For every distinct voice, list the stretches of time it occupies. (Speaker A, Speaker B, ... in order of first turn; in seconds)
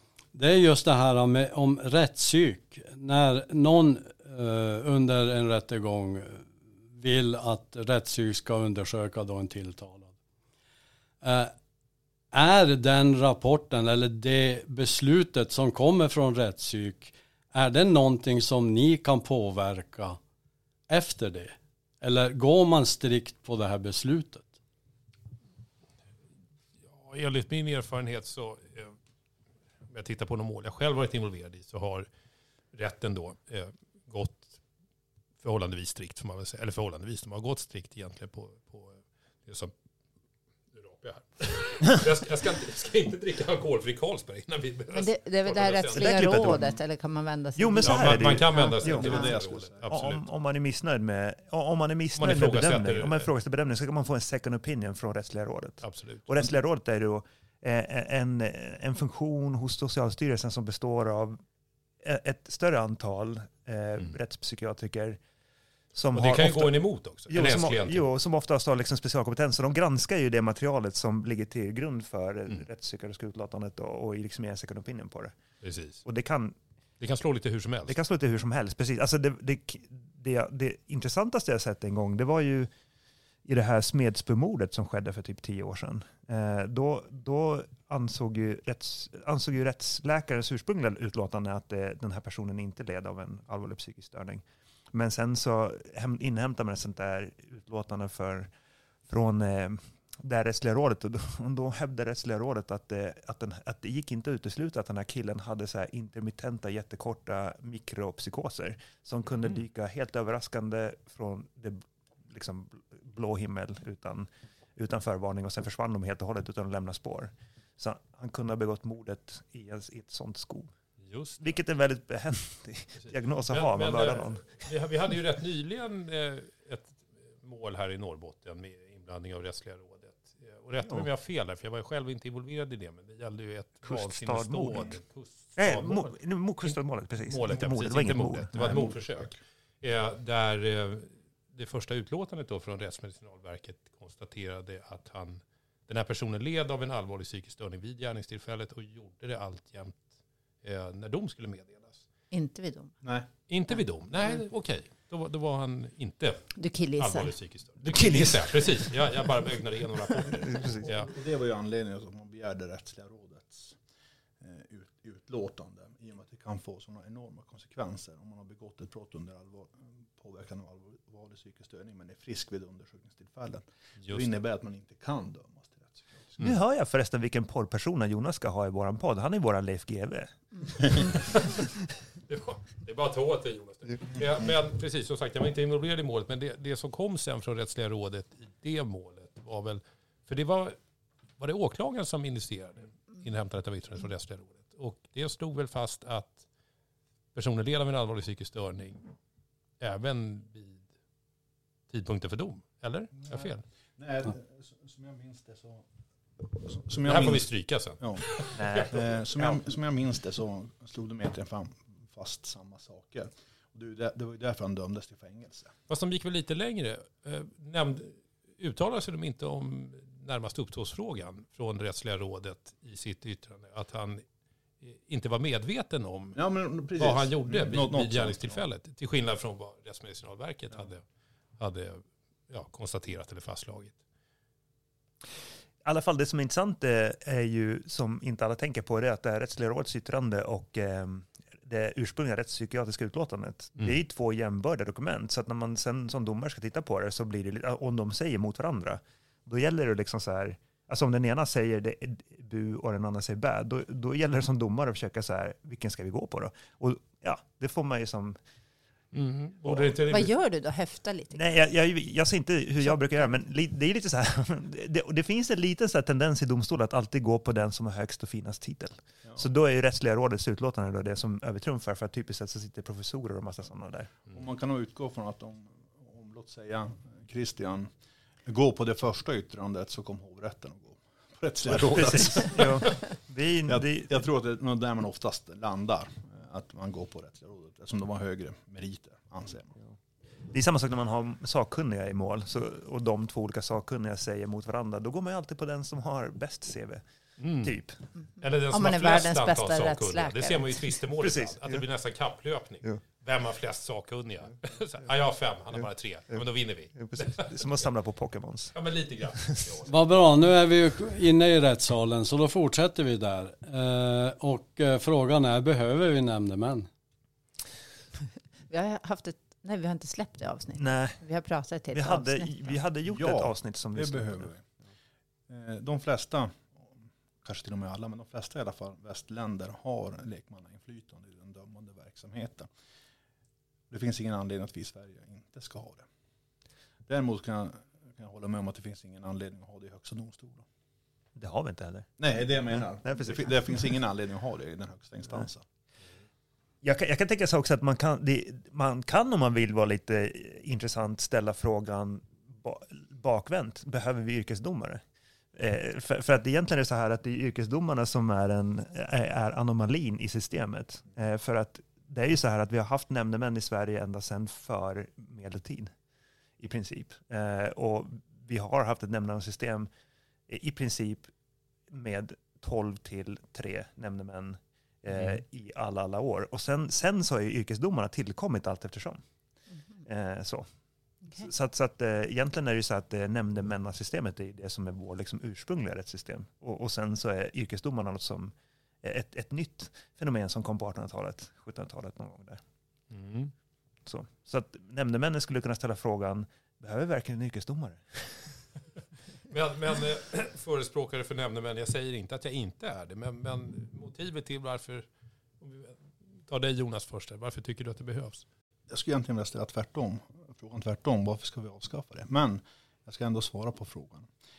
Speaker A: 0.3-10.1, 11.2-11.5, 12.3-20.2, 20.9-24.6, 309.9-316.9
Speaker B: 26.9-28.9, 29.9-32.0, 32.7-34.6, 35.4-39.7, 40.7-46.3, 47.8-50.2, 52.1-53.3, 55.8-56.3, 66.1-68.0, 75.6-76.0, 77.0-78.0, 121.0-121.6, 123.0-136.8, 137.3-150.1, 150.6-152.0, 153.5-161.1, 174.0-174.3, 182.3-190.8, 191.4-196.4, 197.3-199.1, 199.8-200.8, 201.9-203.6, 207.0-209.1, 215.9-224.2, 224.8-226.4, 226.9-231.0, 231.6-234.0, 259.1-260.3, 297.4-297.8, 298.4-307.6, 308.7-309.9, 375.1-375.4, 393.1-393.5, 399.5-405.0, 405.6-408.4
Speaker C: 44.9-49.3, 152.3-152.9, 156.6-157.3, 260.1-261.4, 262.9-263.3, 298.4-300.8, 318.7-322.7
Speaker D: 45.9-46.8, 47.5-49.1, 49.9-61.4, 62.0-65.2, 65.9-75.3, 76.0-76.5, 77.9-82.7, 83.4-98.5, 99.1-120.7, 121.4-124.5, 133.8-134.9, 135.6-138.5, 157.8-158.5, 160.3-160.9, 176.4-181.2, 208.5-209.6, 235.8-258.4, 259.6-259.9, 261.3-274.1, 281.6-284.1, 290.5-297.0, 297.6-298.0, 301.2-301.8, 306.9-308.7, 320.8-321.2, 321.9-324.5, 341.4-342.2, 342.7-343.5, 346.8-355.0, 355.5-365.9, 366.6-369.9, 370.5-371.3, 371.9-379.2, 380.0-380.7, 381.3-392.6, 394.1-398.5
Speaker E: 48.9-49.9, 138.5-139.3, 160.8-163.8, 164.4-176.4, 203.3-205.8, 206.4-215.7, 226.3-228.6, 274.3-277.9, 278.4-282.8, 283.7-289.8, 323.1-324.7, 325.5-332.7, 333.9-336.0, 337.1-340.6, 342.2-345.6, 408.9-414.3